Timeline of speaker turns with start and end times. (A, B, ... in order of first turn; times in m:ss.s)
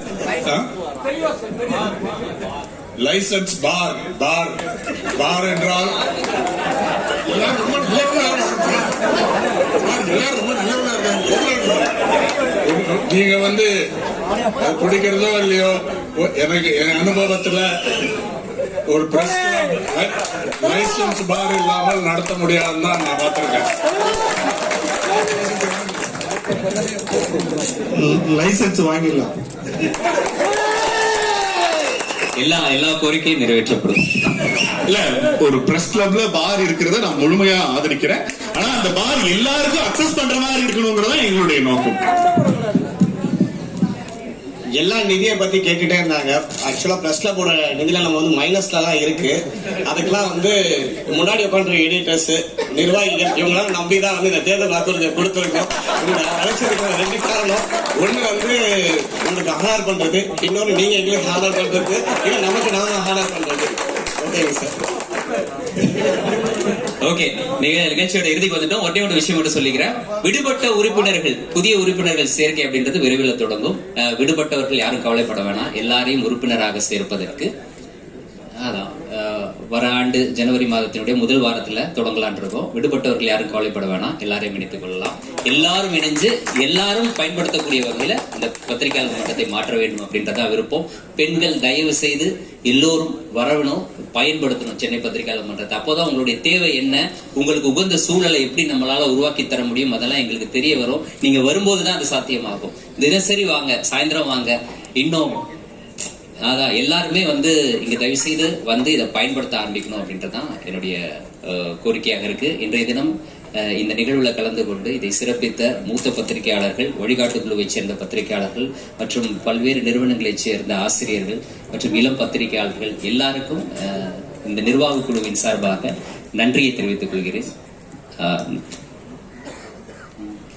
0:03.0-0:04.6 A
0:05.2-0:06.0 A
0:07.3-0:08.9 A
0:09.8-0:11.9 A
0:12.6-0:13.7 A
0:14.6-0:17.7 A
0:18.9-0:23.7 A
0:28.0-0:29.3 B
0:32.4-0:34.2 C
0:34.8-0:42.0 D
0:44.8-1:04.8 B
1:07.0-1:17.5 C
1:18.6-1:45.4 C
1:46.4-1:53.1 C
1:53.6-2:07.5 C
2:08.2-2:08.6 C